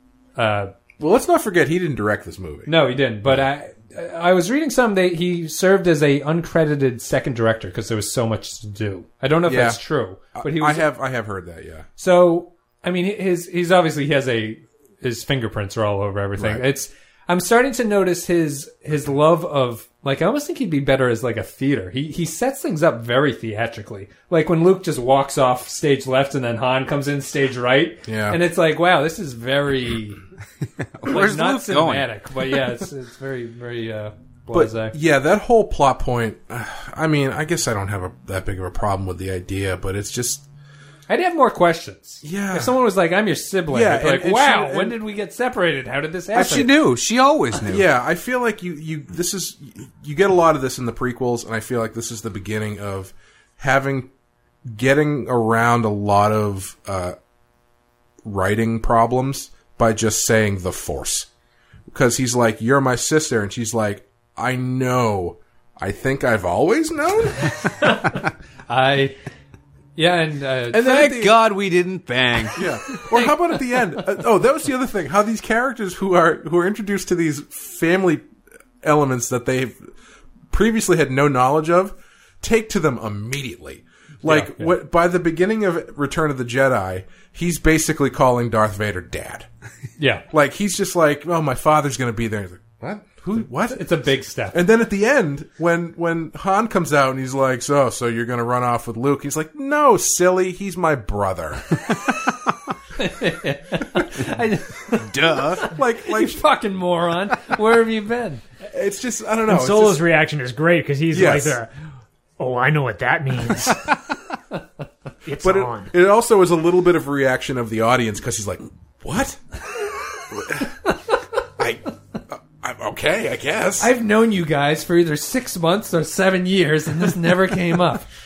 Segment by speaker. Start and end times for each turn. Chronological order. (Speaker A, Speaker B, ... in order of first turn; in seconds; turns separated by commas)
Speaker A: 0.4-0.7, Speaker B: 1.0-2.7, Speaker A: 2.7-10.8, Speaker B: 9.5-9.8, Speaker B: 10.3-11.9, Speaker A: 12.0-30.2, Speaker B: 16.4-16.6, Speaker B: 28.1-28.4, Speaker C: 30.9-32.1, Speaker A: 31.1-34.9, Speaker B: 34.5-40.5, Speaker A: 41.1-46.7, Speaker B: 42.2-42.7, Speaker B: 43.7-45.0, Speaker C: 46.3-47.9, Speaker B: 47.7-54.1, Speaker B: 54.7-57.1, Speaker B: 58.2-61.3, Speaker B: 61.9-67.6, Speaker A: 68.7-69.2, Speaker A: 70.0-71.1, Speaker B: 70.7-71.3, Speaker C: 70.8-73.0, Speaker B: 72.6-78.3, Speaker B: 78.8-79.9, Speaker B: 80.5-89.5, Speaker A: 84.2-84.7, Speaker A: 90.0-90.2, Speaker B: 90.3-93.8, Speaker A: 93.7-94.6, Speaker B: 94.5-101.9, Speaker A: 103.0-108.4, Speaker C: 104.9-105.7, Speaker B: 105.6-106.4, Speaker B: 108.7-110.0, Speaker D: 109.5-111.7, Speaker B: 111.1-111.6, Speaker D: 112.4-113.9, Speaker D: 115.2-115.9, Speaker B: 115.4-119.4, Speaker B: 120.3-120.7, Speaker B: 121.6-123.9, Speaker A: 123.8-128.1